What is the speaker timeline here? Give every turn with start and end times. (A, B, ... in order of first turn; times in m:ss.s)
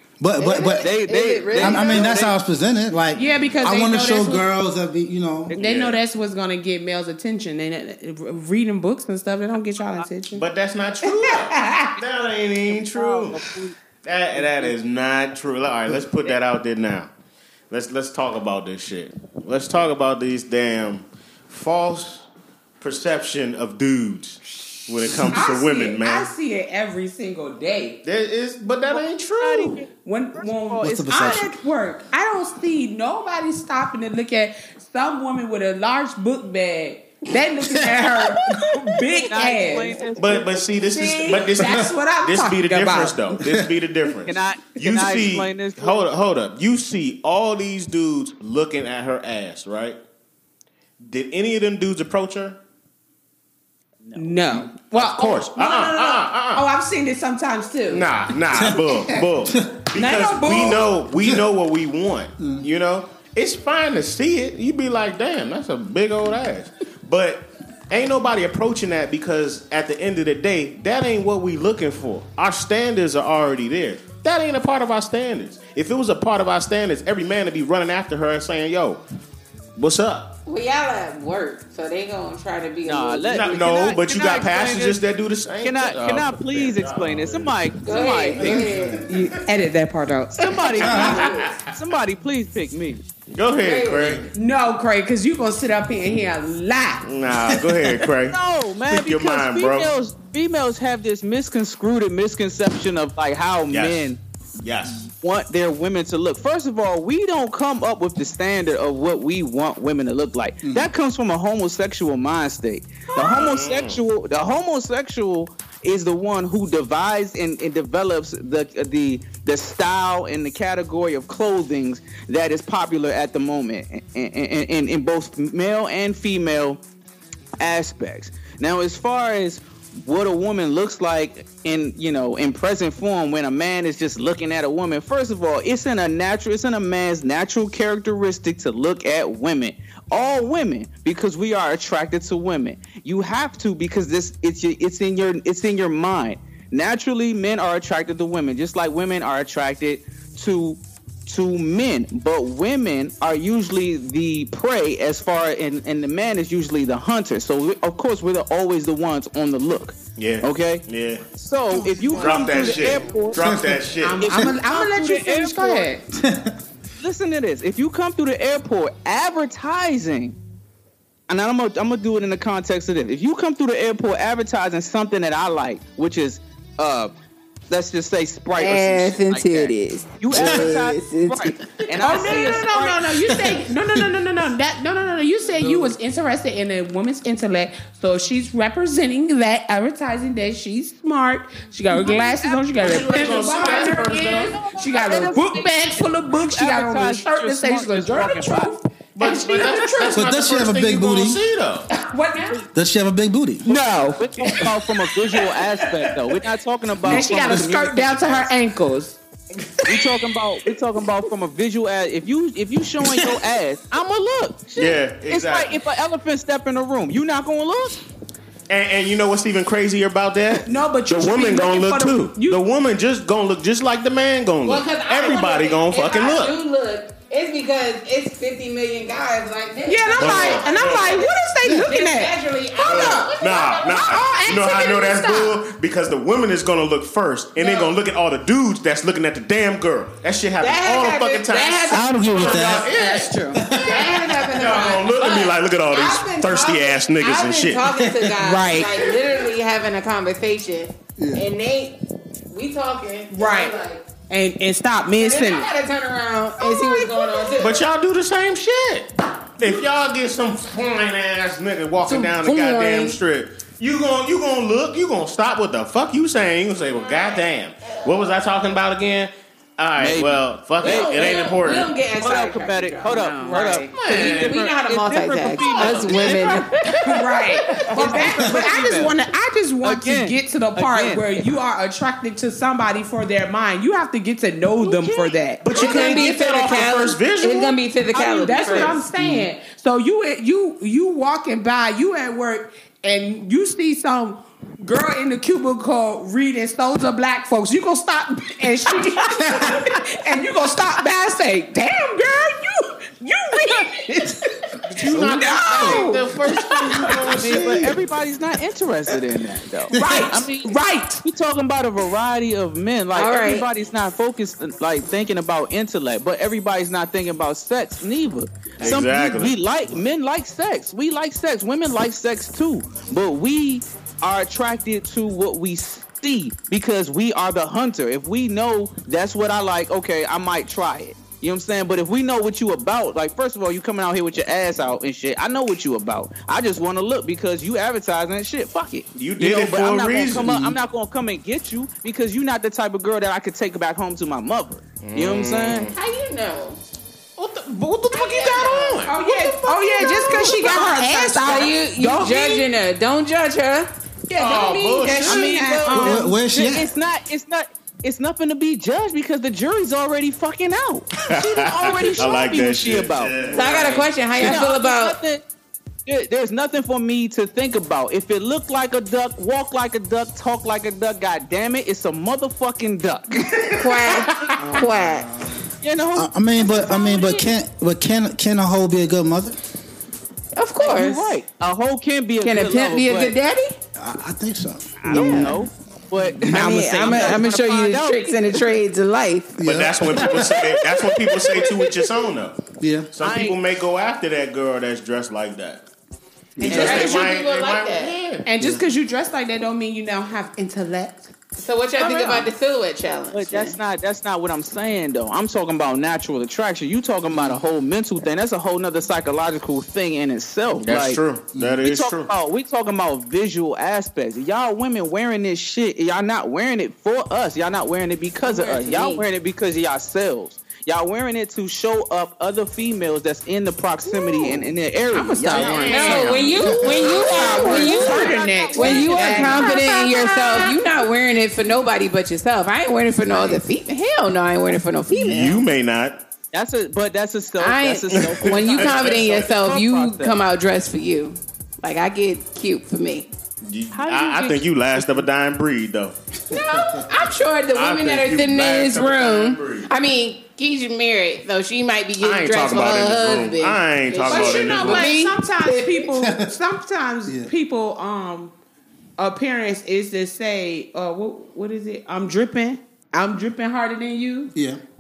0:00.2-0:00.9 A
0:00.4-0:02.3 B
0:00.8-0:02.4 C
0:01.6-0:05.6 A
0:03.1-0:04.5 D
0:05.6-0:06.0 E
0:05.6-0:10.4 D
0:10.3-0:13.4 E
0:11.0-0:12.0 D
0:12.7-0:13.8 C
0:14.0-0:17.1 E
0:14.4-0:14.7 C
0:17.7-0:22.3 E
0:22.8-0:26.3 E
0:25.3-0:28.0 D
0:28.0-0:29.8 E
0:29.4-0:31.4 C
0:29.5-0:40.1 D
0:30.8-0:31.6 A
0:37.6-0:39.1 A
0:39.1-0:40.5 C
0:40.2-0:50.0 E
0:40.9-0:43.2 D
0:41.6-0:41.9 A
0:43.4-0:43.7 A
0:44.3-0:46.0 C
0:51.0-0:52.6 E
0:54.0-0:54.6 C
0:54.2-0:58.1 D
0:54.8-0:56.6 E
0:57.9-1:19.0 E
0:58.5-0:59.9 A
0:59.9-1:00.8 D
1:02.4-1:02.7 A
1:19.8-1:20.4 E
1:20.5-1:23.8 B
1:22.9-1:25.0 C
1:23.3-1:27.6 E
1:25.6-1:28.5 C
1:27.8-1:29.2 B
1:28.4-1:29.4 E
1:28.4-1:29.0 A
1:29.1-1:31.2 D
1:30.3-1:33.0 C
1:30.6-1:31.7 E
1:30.8-1:31.6 B
1:33.3-1:34.3 E
1:33.5-1:34.3 B
1:34.3-1:37.1 D
1:37.0-1:38.4 E
1:38.3-1:44.2 C
1:38.9-1:39.9 E
1:43.7-1:45.1 E
1:45.2-2:06.8 C
1:50.6-1:50.9 A
1:53.3-1:54.0 E
2:07.6-2:43.4 C
2:40.2-2:41.3 E
2:41.7-2:42.0 A
2:42.1-2:43.3 B
2:42.1-2:44.4 E
2:43.4-2:43.8 A
2:44.0-2:46.0 D
2:44.3-2:45.9 C
2:46.1-2:46.6 A
2:47.0-2:50.4 C
2:51.3-2:57.1 C
2:57.7-3:03.0 C
2:58.6-3:02.6 B
3:00.3-3:00.7 A
3:02.0-3:20.2 D
3:03.2-3:04.1 A
3:11.9-3:13.8 C
3:12.8-3:14.6 E
3:13.5-3:15.5 B
3:14.4-3:18.7 C
3:19.2-3:21.9 E
3:20.1-3:21.4 A
3:22.0-3:22.6 D
3:22.7-3:23.7 A
3:23.6-3:24.7 D
3:23.7-3:28.5 C
3:27.0-3:29.2 D
3:29.8-3:38.0 C
3:33.0-3:33.3 A
3:34.8-3:35.8 E
3:38.7-3:46.6 E
3:40.7-3:42.6 D
3:44.6-3:54.5 B
3:49.9-3:53.4 D
3:50.2-3:51.2 E
3:52.8-4:08.0 E
3:53.9-3:55.6 D
3:57.6-3:57.9 B
4:00.6-4:14.1 B
4:01.9-4:02.9 A
4:02.8-4:03.7 D
4:03.5-4:04.3 A
4:08.0-4:08.3 A
4:08.4-4:09.1 D
4:11.2-4:11.4 A
4:13.3-4:13.8 D
4:14.3-4:15.7 D
4:15.2-4:17.8 B
4:16.6-4:17.6 D
4:17.6-4:32.0 E
4:22.1-4:23.2 B
4:27.0-4:28.2 B
4:30.0-4:31.4 C
4:30.8-4:38.5 B
4:32.2-4:36.7 C
4:33.1-4:34.0 D
4:33.9-4:34.6 E
4:35.7-4:36.4 D
4:35.8-4:36.2 E
4:37.0-4:46.3 D
4:38.0-4:39.2 C
4:39.8-4:41.6 C
4:44.8-4:45.4 C
4:45.6-4:47.8 E
4:45.7-4:49.0 B
4:48.1-5:07.4 D
4:48.7-4:49.0 E
4:49.2-4:49.5 A
5:04.9-5:08.0 E
5:05.1-5:05.5 A
5:07.3-5:45.9 C
5:09.9-5:11.2 D
5:10.0-5:10.3 A
5:13.2-5:13.7 B
5:18.8-5:19.6 E
5:39.2-5:40.6 E
5:40.4-5:40.8 A
5:45.0-5:46.0 E
5:46.0-5:46.8 B
5:47.4-5:49.2 E
5:48.1-5:53.9 B
5:49.0-5:52.7 D
5:54.3-5:56.3 D
5:54.3-5:55.6 E
5:55.3-6:05.4 C
5:55.9-5:57.0 A
6:01.3-6:04.1 E
6:03.5-6:05.2 B
6:06.1-6:13.8 C
6:13.7-6:15.3 B
6:14.1-6:14.6 E
6:14.6-6:19.8 A
6:15.8-6:16.3 C
6:20.6-6:21.4 B
6:20.8-6:23.4 C
6:22.4-6:23.8 B
6:24.0-6:25.6 A
6:25.0-6:28.6 C
6:25.1-6:25.5 B
6:26.2-6:26.6 A
6:26.5-6:32.1 B
6:27.0-6:27.4 D
6:29.6-6:30.6 A
6:29.6-6:35.9 E
6:32.8-6:33.1 A
6:33.2-6:33.6 C
6:36.6-6:37.1 A
6:36.6-6:38.4 E
6:36.6-6:38.2 B
6:38.4-6:41.3 D
6:38.6-6:38.8 A
6:41.6-6:43.8 B
6:42.0-6:42.5 D
6:43.3-6:51.2 C
6:47.3-6:47.6 A
6:50.8-6:52.3 E
6:51.8-7:05.9 C
6:58.4-6:59.2 B
7:05.1-7:10.8 D
7:05.5-7:07.6 E
7:05.8-7:15.6 B
7:07.0-7:10.7 C
7:15.1-7:16.2 E
7:16.5-7:20.4 C
7:17.6-7:23.3 B
7:18.4-7:19.5 E
7:23.6-7:26.2 E
7:23.9-7:25.2 C
7:26.5-7:27.1 A
7:26.5-7:36.1 B
7:27.7-7:29.9 E
7:32.2-7:35.1 E
7:34.2-7:38.5 D
7:36.2-7:36.5 A
7:37.3-7:37.5 A
7:39.2-7:44.5 D
7:44.6-7:44.8 A